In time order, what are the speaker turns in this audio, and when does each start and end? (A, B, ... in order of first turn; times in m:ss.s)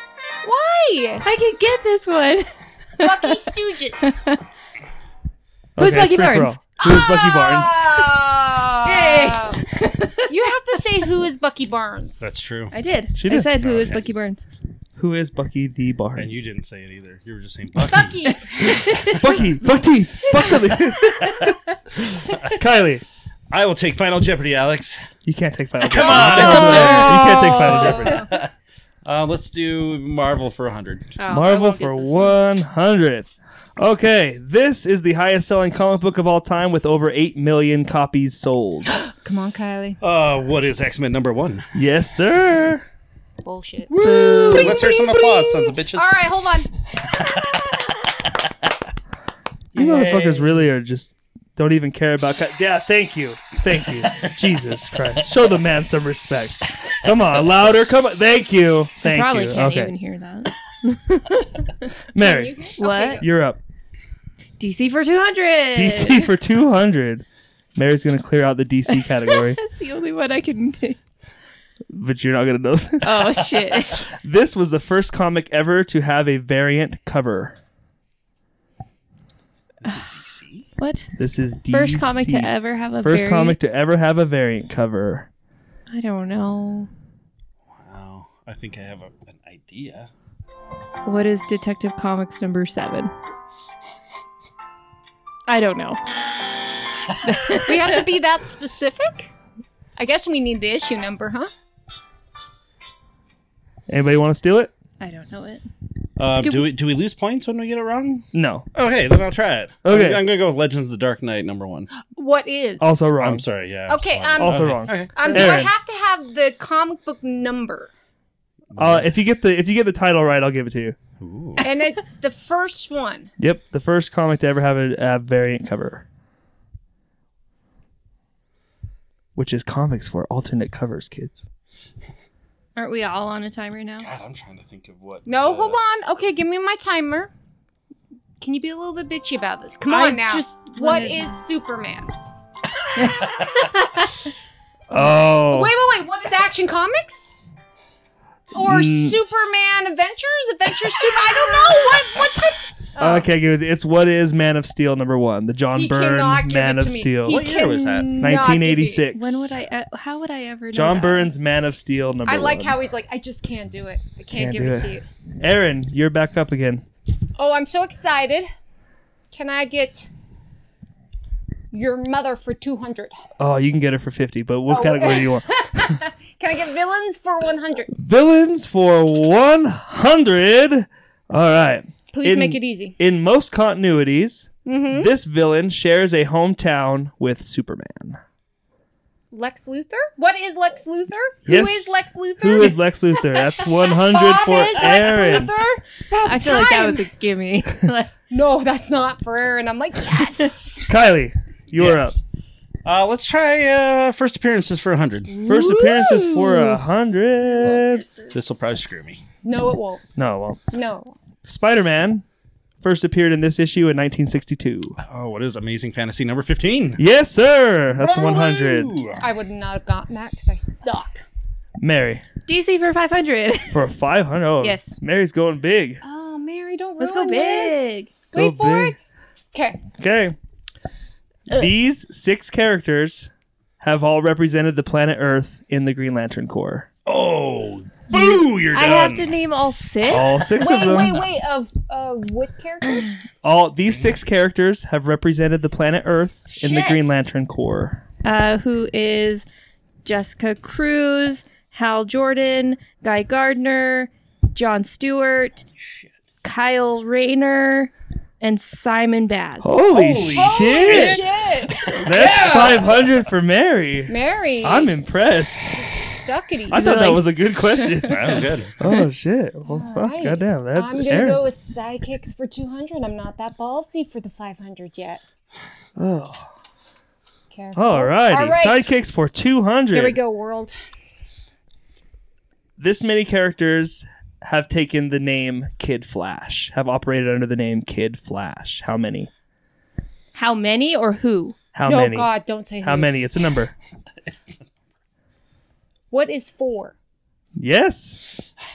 0:00.4-0:01.2 A
0:01.2-0:03.5 B
0:03.0-0:04.2 A
0:04.0-0:04.4 B
0:05.8-0:08.0 C
0:05.8-0:06.6 B
0:06.8-0:09.6 A
0:08.8-0:10.3 B
0:10.3-0:12.3 A
0:12.2-0:12.7 D
0:12.7-0:14.5 B
0:13.1-0:13.5 C
0:13.5-0:14.1 D
0:15.0-0:16.4 C
0:16.2-0:19.2 D
0:17.8-0:19.1 A
0:18.4-0:19.2 B
0:19.1-0:23.0 C
0:23.5-0:25.1 D
0:25.2-0:28.3 C
0:25.9-0:28.5 D
0:25.9-0:28.2 A
0:29.0-0:31.2 D
0:31.2-0:32.4 B
0:31.3-0:39.0 C
0:39.1-0:40.0 A
0:40.0-0:41.6 D
0:41.7-0:42.8 C
0:43.4-0:43.9 A
0:43.9-0:46.2 D
0:44.0-0:45.0 B
0:44.4-0:46.7 A
0:47.0-0:47.7 D
0:49.7-0:50.6 D
0:49.7-0:59.9 C
0:59.0-1:01.9 B
1:02.1-1:03.6 C
1:02.2-1:03.3 A
1:02.8-1:03.2 B
1:04.6-1:06.3 B
1:05.7-1:07.2 C
1:07.8-1:09.6 C
1:08.9-1:11.0 B
1:11.9-1:17.6 C
1:13.0-1:14.0 B
1:19.8-1:20.7 D
1:20.8-1:21.1 B
1:21.2-1:25.3 C
1:21.7-1:23.6 B
1:25.9-1:26.9 B
1:27.7-1:30.1 D
1:31.0-1:33.1 B
1:35.5-1:36.0 B
1:37.2-1:38.1 B
1:37.5-1:39.3 A
1:40.0-1:41.5 A
1:43.9-1:44.7 C
1:45.0-1:45.6 B
1:46.2-1:51.9 D
1:48.3-1:48.6 C
1:49.8-1:50.2 C
1:52.1-1:52.9 A
1:52.8-1:53.4 C
1:53.2-1:55.6 D
1:53.9-1:57.9 A
1:54.4-1:55.7 C
1:58.7-1:59.1 D
1:58.8-2:01.0 C
2:01.2-2:01.6 D
2:01.6-2:03.3 A
2:03.4-2:06.0 C
2:09.4-2:11.4 C
2:12.8-2:14.1 B
2:14.0-2:15.8 D
2:15.2-2:17.3 A
2:18.4-2:22.1 A
2:19.9-2:21.3 B
2:23.0-2:24.0 B
2:24.9-2:25.7 C
2:24.9-2:27.4 A
2:28.5-2:33.3 A
2:28.6-2:29.2 C
2:33.0-2:37.5 C
2:35.7-2:39.0 A
2:37.2-2:38.4 D
2:38.2-2:39.6 C
2:39.1-2:41.3 B
2:40.7-2:42.8 C
2:42.2-2:45.0 A
2:44.3-2:46.8 C
2:47.4-2:48.5 A
2:49.3-2:50.1 A
2:51.7-2:53.1 A
2:53.4-2:55.8 C
2:54.7-2:57.9 A
2:57.9-3:08.2 C
3:02.1-3:02.9 A
3:04.6-3:05.1 A
3:09.3-3:12.8 A
3:11.4-3:15.5 C
3:13.4-3:17.1 A
3:14.8-3:15.5 B
3:16.2-3:18.1 B
3:18.3-3:20.8 A
3:20.9-3:22.2 C
3:21.7-3:22.2 D
3:22.8-3:25.4 D
3:25.3-3:26.8 A
3:25.4-3:28.0 C
3:25.5-3:25.8 B
3:27.6-3:28.3 A
3:28.3-3:29.2 D
3:29.4-3:30.0 A
3:30.2-3:30.6 C
3:30.7-3:31.2 A
3:31.4-3:32.2 C
3:32.8-3:35.0 C
3:35.0-3:37.0 D
3:37.0-3:39.0 C
3:37.9-3:39.2 D
3:39.2-3:41.2 A
3:41.8-3:42.2 C
3:42.4-3:43.8 B
3:43.7-3:46.0 C
3:44.6-3:44.9 B
3:46.0-3:49.0 A
3:47.0-3:48.1 B
3:48.3-3:48.9 C
3:49.5-3:49.9 A
3:49.9-3:50.4 C
3:51.5-3:53.3 C
3:53.8-3:56.9 C
3:57.0-3:59.4 D
3:58.1-4:01.0 B
4:00.1-4:01.2 C
4:00.6-4:03.2 A
4:03.4-4:08.0 C
4:03.9-4:04.1 D
4:06.6-4:07.0 B
4:06.7-4:07.0 A
4:08.2-4:09.4 B
4:10.0-4:15.6 B
4:15.7-4:16.1 D
4:16.4-4:19.8 B
4:19.6-4:21.2 C
4:19.9-4:23.0 D
4:20.3-4:22.9 A
4:21.9-4:26.1 C
4:24.1-4:26.8 A
4:26.7-4:31.4 C
4:26.7-4:28.3 B
4:28.0-4:28.7 D
4:29.7-4:35.2 A
4:36.0-4:36.5 C
4:37.5-4:38.9 A
4:37.7-4:40.2 C
4:39.9-4:40.7 A
4:42.8-4:49.3 C
4:50.3-4:51.6 B
4:51.7-4:53.7 C
4:51.8-4:53.1 A
4:56.1-4:56.9 A
4:57.6-4:58.2 C